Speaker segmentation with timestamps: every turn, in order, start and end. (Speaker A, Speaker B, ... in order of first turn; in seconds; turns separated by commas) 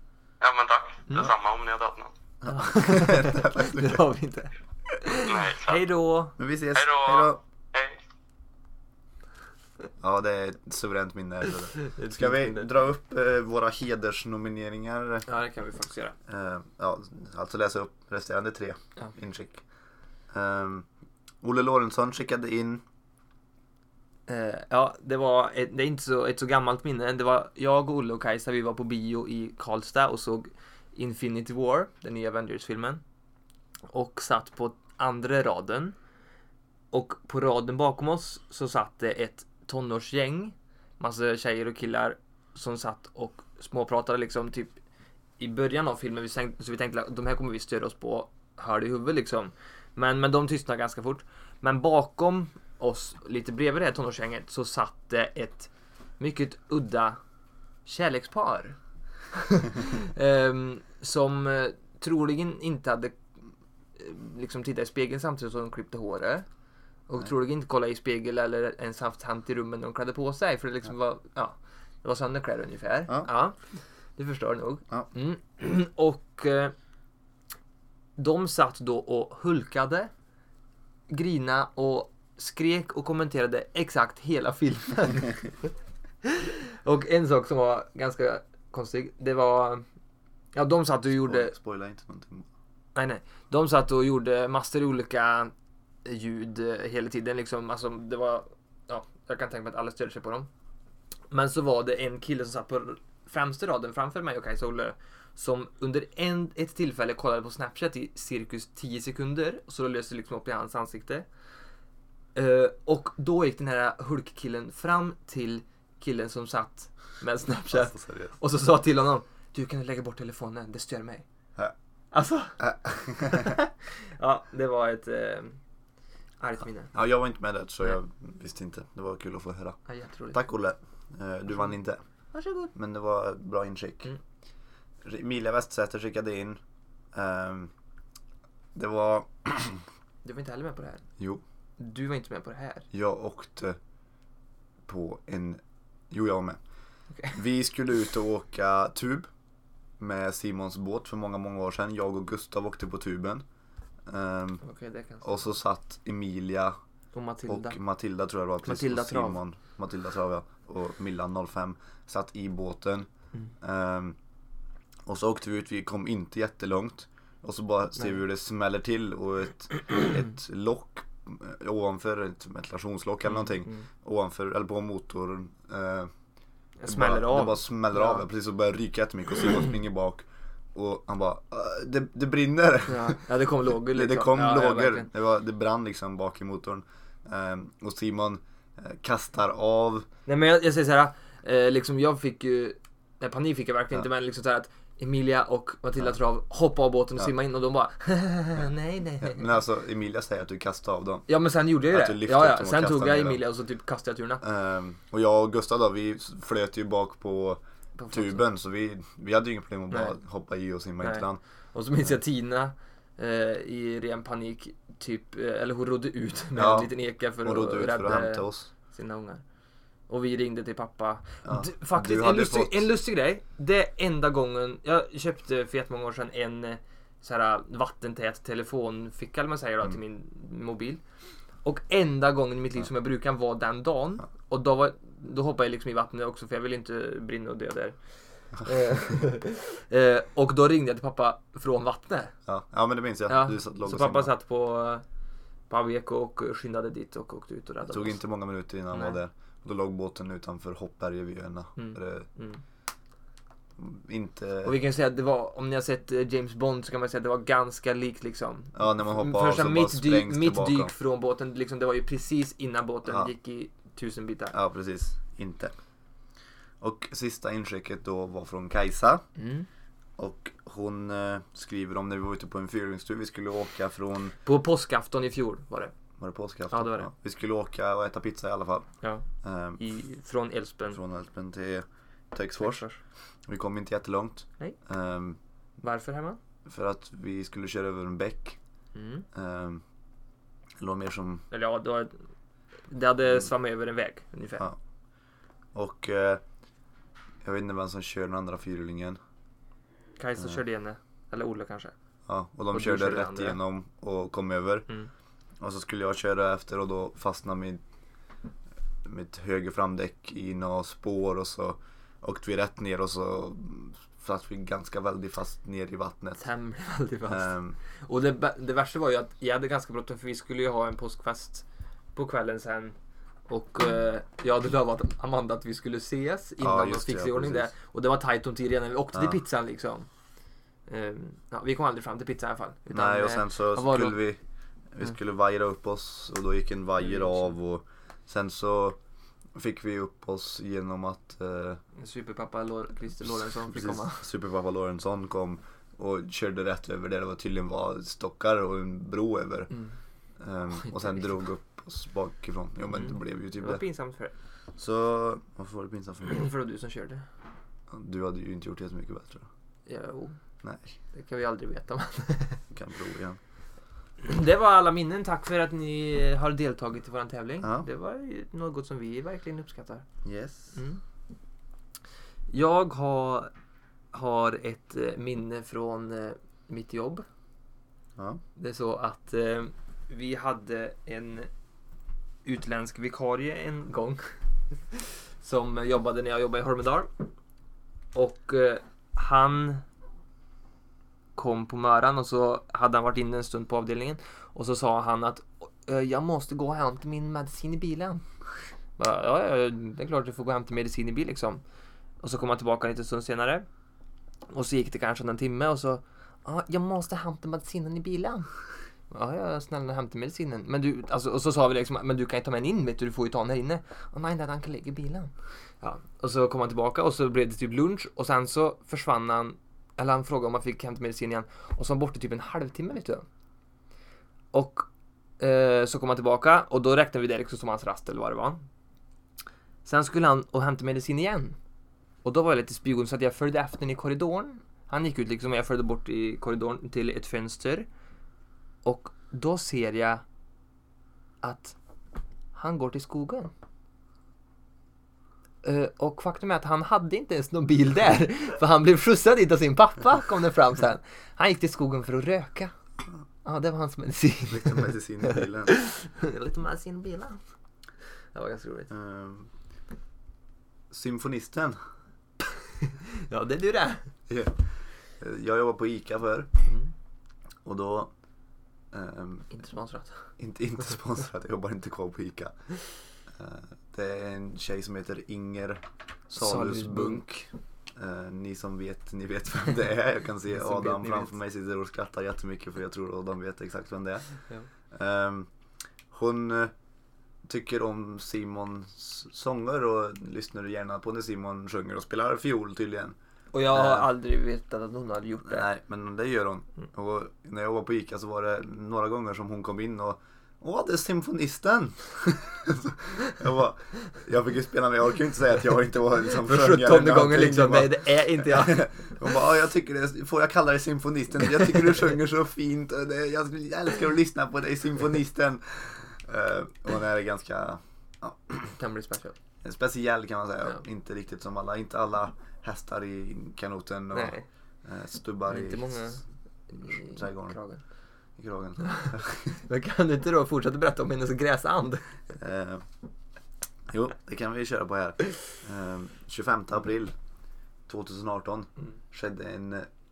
Speaker A: 0.4-2.1, Speaker B: 2.4-4.1, Speaker C: 2.5-6.3, Speaker A: 5.2-5.8, Speaker B: 6.4-7.4, Speaker A: 6.7-8.0, Speaker B: 10.0-15.3, Speaker C: 11.8-12.8, Speaker C: 15.3-16.1, Speaker B: 16.3-19.6, Speaker B: 20.3-20.8, Speaker B: 21.4-22.8, Speaker C: 24.3-33.0, Speaker C: 33.9-35.9, Speaker C: 36.9-44.8, Speaker C: 45.4-57.2, Speaker C: 57.8-58.8, Speaker C: 59.4-63.2, Speaker C: 64.0-66.4, Speaker C: 67.1-73.5, Speaker C: 74.2-76.7, Speaker C: 78.2-80.1, Speaker C: 81.1-85.7, Speaker C: 86.2-89.8, Speaker C: 90.5-91.5, Speaker B: 91.2-92.5, Speaker C: 92.9-95.5, Speaker C: 96.0-100.5, Speaker C: 101.3-111.3, Speaker C: 112.3-121.2, Speaker B: 117.7-118.3, Speaker C: 122.1-122.6, Speaker B: 122.6-123.5, Speaker C: 123.2-125.6, Speaker C: 126.4-126.9, Speaker B: 126.9-129.8, Speaker C: 129.9-130.4, Speaker B: 130.3-132.0, Speaker C: 132.3-132.7, Speaker B: 132.7-134.1, Speaker B: 135.0-136.6, Speaker B: 137.1-137.7, Speaker B: 138.7-139.8, Speaker C: 140.2-141.0, Speaker C: 141.8-142.9, Speaker B: 142.9-143.8, Speaker B: 144.9-146.6, Speaker C: 147.1-147.4, Speaker B: 147.3-149.3, Speaker B: 150.0-153.4, Speaker B: 154.1-154.6, Speaker C: 154.6-155.4, Speaker B: 155.2-156.7, Speaker C: 157.1-157.8, Speaker B: 157.5-163.1, Speaker C: 158.6-159.4, Speaker B: 163.6-164.1, Speaker B: 165.1-176.1, Speaker C: 173.3-173.8, Speaker C: 176.8-178.2, Speaker B: 176.8-183.2, Speaker C: 182.9-185.1, Speaker B: 183.9-190.1, Speaker C: 190.2-199.5, Speaker B: 199.2-201.3, Speaker C: 201.3-204.4, Speaker B: 201.9-203.4, Speaker B: 204.4-207.6, Speaker C: 208.0-208.4, Speaker B: 208.1-211.4, Speaker C: 209.9-210.2, Speaker C: 211.0-219.4, Speaker B: 216.6-218.7, Speaker C: 220.1-231.0, Speaker B: 221.4-222.9, Speaker C: 231.6-237.9, Speaker C: 238.5-242.3, Speaker B: 242.5-244.3, Speaker C: 243.3-245.0, Speaker C: 245.7-248.2, Speaker B: 247.9-252.3, Speaker C: 248.9-249.2, Speaker C: 251.8-252.6, Speaker B: 253.8-254.8, Speaker C: 254.6-264.5, Speaker B: 258.7-260.9, Speaker B: 263.1-263.3, Speaker B: 264.5-265.7, Speaker B: 266.8-269.2, Speaker C: 269.4-269.7, Speaker B: 270.2-274.3, Speaker C: 274.4-275.9, Speaker B: 276.2-278.9, Speaker C: 276.7-277.1, Speaker B: 279.4-279.8, Speaker C: 279.8-281.0, Speaker B: 280.9-282.8, Speaker C: 282.6-283.0, Speaker B: 283.5-285.4, Speaker C: 285.8-286.4, Speaker B: 286.6-288.6, Speaker C: 288.9-289.2, Speaker B: 289.3-289.8, Speaker B: 290.8-291.4, Speaker C: 291.5-292.2, Speaker C: 292.9-294.7, Speaker B: 295.7-296.4, Speaker B: 297.4-299.2, Speaker C: 300.2-301.9, Speaker B: 302.2-304.9, Speaker C: 302.7-303.6, Speaker B: 305.6-307.8, Speaker B: 309.0-316.4, Speaker C: 316.4-317.5, Speaker B: 317.2-317.8, Speaker C: 318.0-322.9, Speaker C: 323.5-330.1, Speaker B: 326.6-327.7, Speaker C: 330.9-334.2, Speaker B: 332.9-334.4, Speaker B: 334.9-339.0, Speaker C: 337.0-337.5, Speaker B: 339.6-341.8, Speaker C: 342.0-344.2, Speaker B: 343.6-349.7, Speaker B: 350.4-353.8, Speaker C: 350.9-351.2, Speaker C: 352.9-354.3, Speaker B: 354.8-356.5, Speaker C: 356.2-357.2, Speaker B: 357.9-359.5, Speaker C: 359.9-360.4, Speaker B: 360.6-360.9, Speaker C: 361.1-362.6, Speaker B: 362.7-363.4, Speaker C: 364.2-370.0, Speaker B: 367.6-367.9, Speaker B: 370.2-370.8, Speaker C: 370.7-371.0, Speaker C: 372.5-373.5, Speaker C: 374.1-377.2, Speaker B: 378.1-378.4, Speaker C: 378.6-381.5, Speaker C: 382.4-384.2, Speaker C: 384.9-387.1, Speaker C: 388.1-389.8, Speaker C: 391.4-398.2, Speaker C: 399.0-401.6, Speaker C: 402.2-403.6, Speaker C: 404.5-408.5, Speaker C: 409.1-423.2, Speaker C: 424.5-424.9, Speaker C: 425.4-428.6, Speaker C: 429.8-431.6, Speaker C: 432.2-437.9, Speaker C: 438.8-440.2, Speaker C: 441.4-441.8, Speaker C: 442.5-443.5, Speaker C: 445.6-452.7, Speaker C: 453.4-457.4, Speaker B: 454.5-455.8, Speaker C: 458.3-458.9, Speaker B: 458.9-459.5, Speaker B: 460.9-461.8, Speaker C: 462.8-464.1, Speaker B: 464.3-466.5, Speaker C: 466.6-466.9, Speaker B: 467.6-468.1, Speaker B: 468.9-469.5, Speaker C: 469.5-470.3, Speaker B: 470.4-472.5, Speaker B: 473.3-484.3, Speaker C: 476.4-477.2, Speaker C: 480.5-481.3, Speaker B: 484.9-485.5, Speaker B: 486.1-486.7, Speaker B: 487.4-493.1, Speaker C: 493.5-495.7, Speaker B: 493.7-494.1, Speaker B: 495.4-518.8, Speaker C: 506.4-509.2, Speaker C: 518.8-519.3, Speaker B: 519.6-526.2, Speaker C: 524.1-524.5, Speaker C: 525.5-527.8, Speaker B: 526.8-527.6, Speaker B: 528.4-529.6, Speaker C: 528.8-529.1, Speaker C: 529.6-532.0, Speaker B: 532.3-532.8, Speaker B: 533.9-537.1, Speaker B: 537.9-539.9